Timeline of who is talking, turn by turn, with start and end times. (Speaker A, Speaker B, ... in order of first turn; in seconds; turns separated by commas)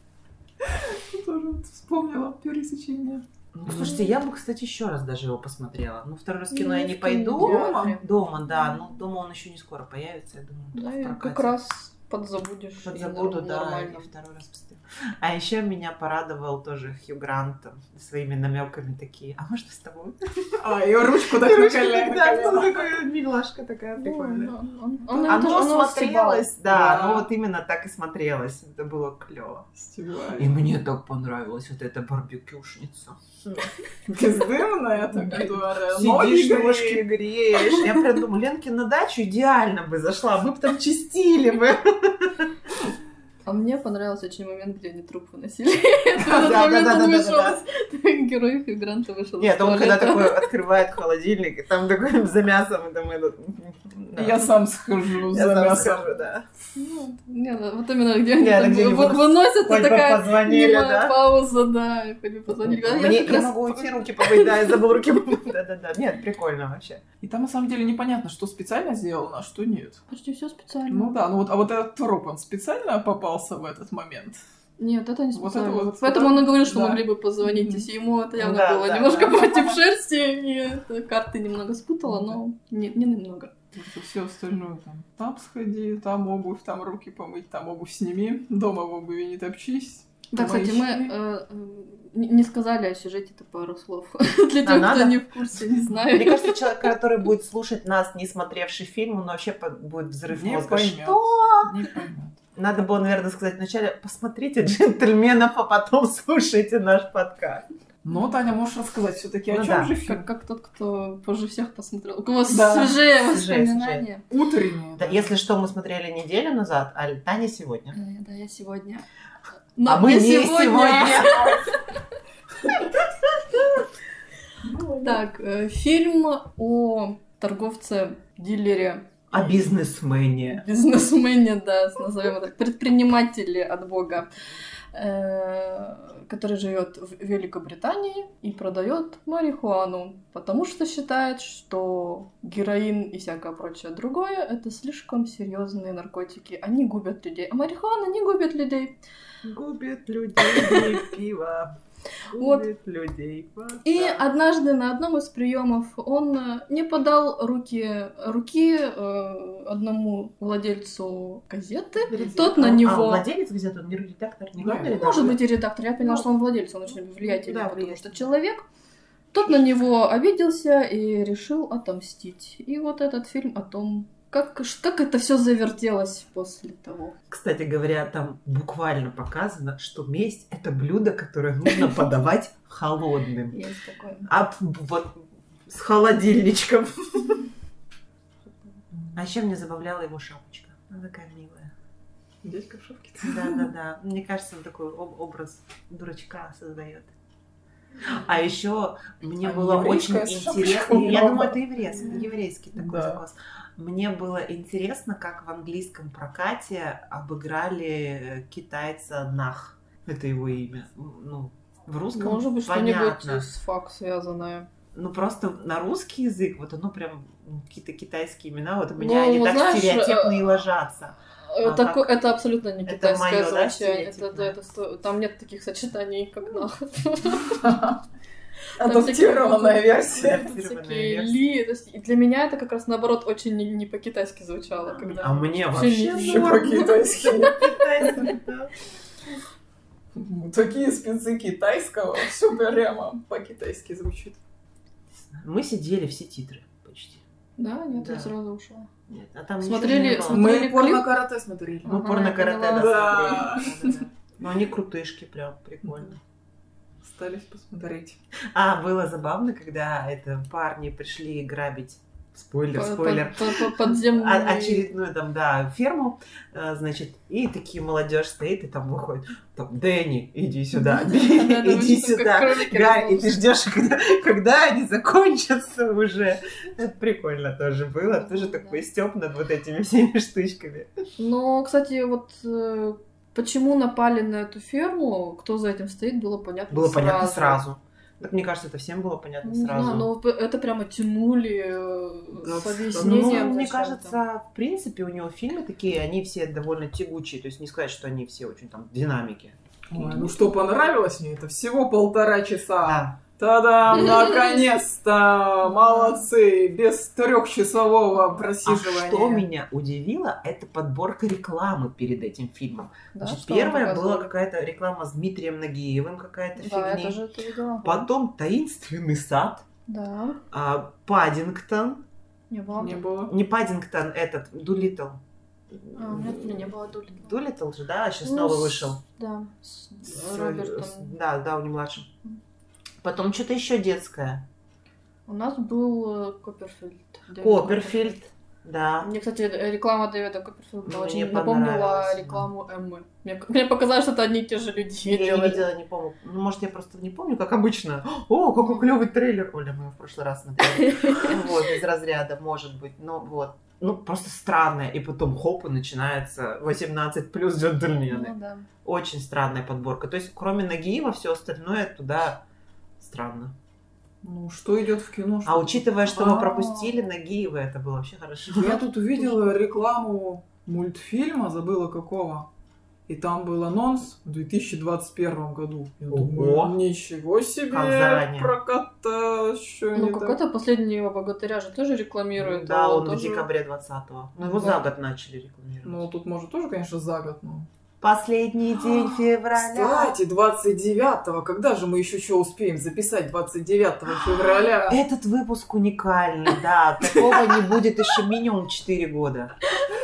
Speaker A: 0.6-3.9, Speaker B: 3.5-11.6, Speaker C: 3.7-4.1, Speaker C: 6.5-8.1, Speaker A: 7.4-8.0, Speaker C: 10.7-14.1, Speaker B: 12.8-20.2, Speaker A: 20.6-23.0, Speaker B: 21.4-24.5, Speaker C: 24.0-26.5, Speaker B: 25.1-29.7, Speaker A: 26.7-27.3, Speaker A: 29.8-30.5, Speaker B: 30.4-33.7, Speaker A: 34.1-37.0, Speaker B: 35.2-42.5, Speaker C: 37.7-38.0, Speaker C: 43.5-50.5, Speaker B: 46.2-47.6, Speaker B: 49.4-54.5, Speaker A: 54.1-56.1, Speaker B: 55.3-56.5, Speaker C: 56.8-65.1, Speaker B: 58.4-61.2, Speaker B: 62.6-67.0, Speaker A: 67.2-70.0, Speaker C: 70.1-71.1, Speaker A: 70.9-74.4, Speaker C: 74.8-83.5, Speaker A: 75.3-77.9, Speaker B: 78.4-79.8, Speaker A: 82.1-82.4, Speaker A: 83.7-91.1, Speaker C: 90.3-96.8, Speaker B: 94.6-95.2, Speaker B: 96.1-101.7, Speaker A: 100.3-102.4, Speaker B: 102.6-107.7, Speaker A: 108.0-110.2, Speaker B: 109.5-109.9, Speaker C: 110.0-114.2, Speaker A: 112.5-113.0, Speaker B: 113.2-114.0, Speaker A: 114.3-115.3, Speaker B: 115.0-118.0, Speaker C: 117.9-119.1, Speaker C: 119.8-121.8, Speaker B: 119.8-121.6, Speaker A: 124.7-125.2, Speaker C: 125.0-129.4, Speaker B: 129.3-130.6, Speaker C: 130.5-134.3, Speaker C: 134.9-149.0, Speaker B: 149.4-151.7, Speaker C: 150.4-151.0, Speaker B: 152.3-154.2, Speaker C: 152.4-152.7, Speaker C: 153.8-163.3, Speaker B: 162.1-165.4, Speaker A: 162.1-162.5, Speaker A: 164.6-164.9, Speaker C: 164.9-168.6, Speaker B: 166.0-166.3, Speaker B: 166.9-168.3, Speaker C: 169.3-177.2, Speaker B: 169.4-169.7, Speaker B: 177.3-183.6, Speaker C: 183.5-184.3, Speaker B: 184.3-187.5, Speaker B: 189.1-191.7, Speaker A: 192.4-193.7, Speaker B: 193.2-197.1, Speaker B: 198.1-213.5, Speaker A: 199.4-201.6, Speaker A: 202.8-203.2, Speaker C: 212.2-214.7, Speaker B: 214.9-222.2, Speaker C: 219.0-220.6, Speaker C: 221.5-227.7, Speaker B: 222.9-224.6, Speaker A: 227.5-228.0, Speaker A: 228.8-230.4, Speaker C: 228.8-238.3, Speaker B: 230.1-231.4, Speaker B: 234.8-238.7, Speaker A: 236.2-237.6, Speaker A: 240.2-244.4, Speaker B: 245.3-247.2, Speaker C: 247.6-248.9, Speaker B: 247.9-248.3, Speaker B: 249.1-250.5, Speaker C: 249.6-251.1, Speaker A: 250.3-251.9, Speaker C: 251.8-254.0, Speaker B: 251.9-256.2, Speaker A: 252.7-253.7, Speaker A: 255.8-256.1, Speaker A: 257.0-258.2, Speaker B: 258.6-280.9, Speaker C: 262.7-264.9, Speaker C: 270.7-273.4, Speaker C: 278.0-278.9, Speaker C: 281.2-287.6, Speaker B: 286.7-290.1, Speaker C: 289.4-294.2, Speaker A: 292.3-293.5, Speaker B: 292.9-299.6, Speaker A: 299.9-309.5, Speaker C: 300.0-300.5, Speaker B: 302.8-303.2, Speaker B: 303.9-304.2, Speaker C: 304.1-304.5, Speaker C: 305.6-306.3, Speaker B: 308.6-317.2, Speaker C: 313.1-314.3, Speaker C: 316.6-318.1, Speaker B: 317.8-319.6, Speaker C: 319.9-320.4, Speaker B: 320.5-322.1, Speaker C: 322.5-323.0, Speaker A: 322.7-323.3, Speaker B: 323.3-325.2, Speaker B: 325.8-329.0, Speaker C: 325.9-327.4, Speaker C: 328.2-331.2, Speaker B: 330.1-332.1, Speaker B: 333.0-334.4, Speaker C: 335.3-338.2, Speaker B: 337.4-339.1, Speaker C: 339.0-345.7, Speaker B: 340.9-342.5, Speaker B: 345.1-362.4, Speaker C: 348.6-348.9, Speaker C: 350.8-351.5, Speaker C: 358.1-358.7, Speaker B: 363.0-363.5, Speaker A: 364.2-366.6, Speaker B: 365.4-368.9, Speaker C: 366.3-367.0, Speaker A: 368.5-372.5, Speaker A: 373.1-380.4, Speaker B: 376.1-376.8, Speaker B: 377.7-378.5, Speaker C: 379.9-383.5, Speaker B: 382.4-386.1, Speaker A: 384.4-384.7, Speaker C: 384.5-384.8, Speaker A: 385.8-387.7, Speaker B: 388.0-390.2, Speaker A: 388.8-395.0, Speaker B: 394.9-399.5